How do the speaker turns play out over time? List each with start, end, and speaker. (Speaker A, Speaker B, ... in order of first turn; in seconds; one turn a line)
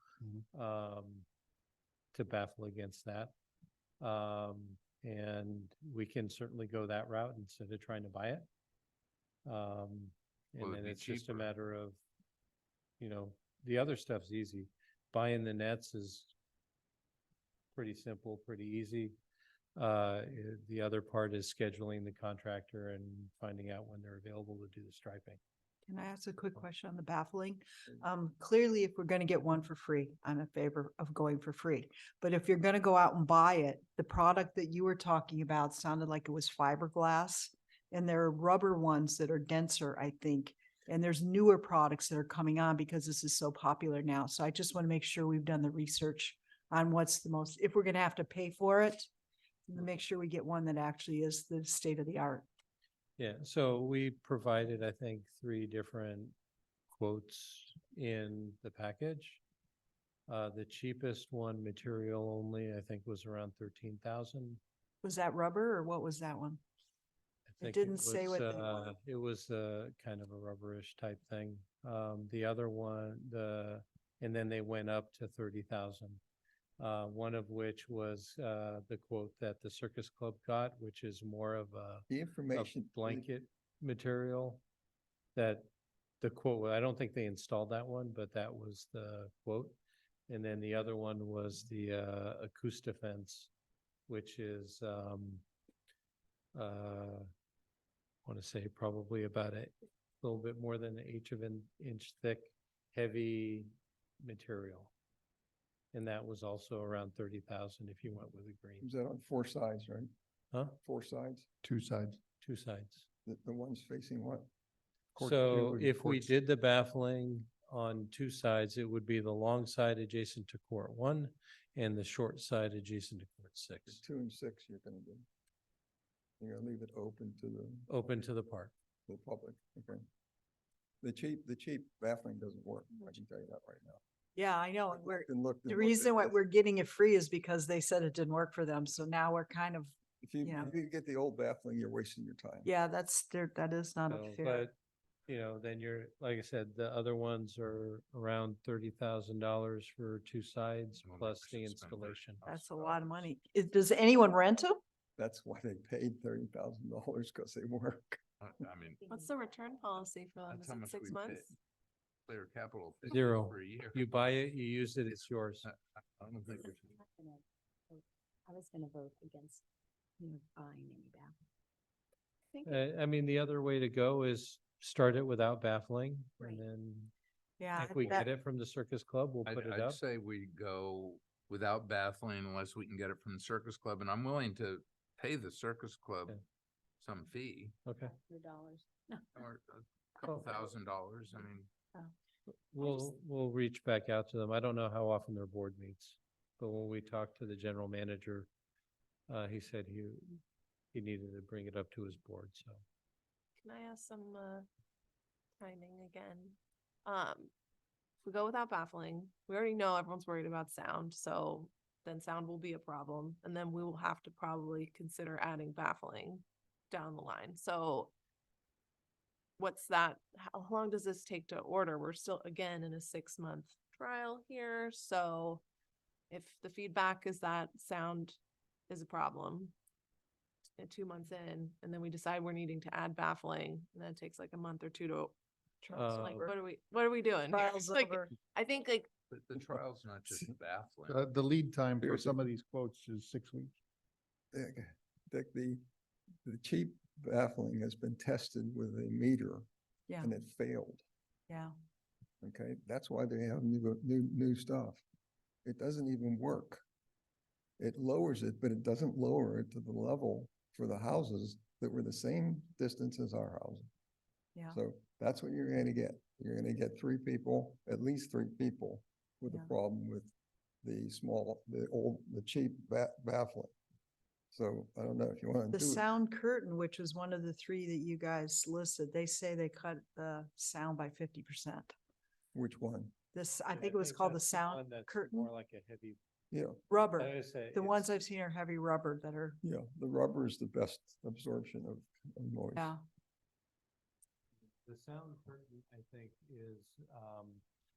Speaker A: 0.5-1.2
Speaker A: 2.1-3.3
Speaker A: 4.0-8.4
Speaker A: 9.4-12.0
Speaker B: 10.6-11.5
Speaker A: 13.0-16.3
Speaker A: 17.7-19.1
Speaker A: 19.8-25.4
Speaker C: 25.9-49.1
Speaker C: 49.7-52.5
Speaker A: 53.2-56.3
Speaker A: 56.9-59.4
Speaker A: 60.3-64.6
Speaker C: 65.0-66.6
Speaker A: 67.5-76.2
Speaker C: 67.6-68.9
Speaker A: 76.8-84.6
Speaker D: 82.1-83.3
Speaker A: 85.3-85.7
Speaker A: 86.2-89.8
Speaker A: 90.3-93.5
Speaker A: 94.1-95.4
Speaker A: 96.5-97.3
Speaker A: 98.2-103.7
Speaker A: 104.2-104.9
Speaker A: 105.9-108.8
Speaker D: 108.8-110.1
Speaker D: 110.8-111.5
Speaker E: 111.6-112.2
Speaker A: 112.4-113.1
Speaker D: 113.2-114.5
Speaker E: 115.2-116.3
Speaker A: 115.2-124.0
Speaker D: 123.9-125.2
Speaker D: 126.4-127.9
Speaker A: 127.9-128.7
Speaker D: 129.1-130.1
Speaker D: 131.0-134.0
Speaker C: 134.3-140.7
Speaker D: 134.9-136.4
Speaker D: 140.2-142.7
Speaker C: 142.6-144.7
Speaker A: 144.1-144.7
Speaker A: 145.3-152.4
Speaker B: 151.0-153.2
Speaker C: 152.4-154.8
Speaker D: 155.2-158.2
Speaker B: 158.4-159.0
Speaker F: 158.8-160.1
Speaker G: 159.1-161.5
Speaker B: 160.5-161.5
Speaker B: 162.3-164.2
Speaker A: 163.1-165.7
Speaker B: 165.6-167.0
Speaker F: 166.6-169.6
Speaker F: 170.2-171.3
Speaker G: 172.5-172.8
Speaker A: 172.6-177.1
Speaker C: 177.6-178.3
Speaker A: 177.8-180.0
Speaker B: 179.4-186.4
Speaker B: 187.0-187.8
Speaker A: 187.8-188.1
Speaker F: 188.0-189.3
Speaker B: 189.3-191.7
Speaker A: 192.7-198.5
Speaker F: 192.8-193.2
Speaker A: 199.3-200.4
Speaker A: 200.9-202.8
Speaker G: 203.6-204.7
Speaker G: 205.6-207.5
Speaker G: 208.2-218.1
Speaker G: 219.6-225.6
Speaker G: 226.3-228.4
Speaker G: 228.9-229.7
Speaker G: 230.8-235.3
Speaker C: 235.8-236.5
Speaker A: 235.9-236.5
Speaker G: 236.1-239.1
Speaker C: 237.5-238.3
Speaker B: 239.3-241.2
Speaker E: 241.0-243.7
Speaker D: 242.0-242.4
Speaker D: 244.5-245.8
Speaker D: 246.4-249.7
Speaker D: 250.2-251.0
Speaker D: 252.4-255.0
Speaker D: 255.6-256.8
Speaker D: 257.8-263.9
Speaker D: 264.7-270.3
Speaker D: 270.8-273.7
Speaker D: 274.5-276.0
Speaker C: 275.7-281.9
Speaker D: 282.5-283.1
Speaker C: 283.3-285.4
Speaker A: 283.7-286.2
Speaker D: 286.5-286.8
Speaker C: 286.9-289.6
Speaker A: 287.2-288.1
Speaker D: 289.6-292.9
Speaker C: 292.8-293.0
Speaker A: 294.8-297.6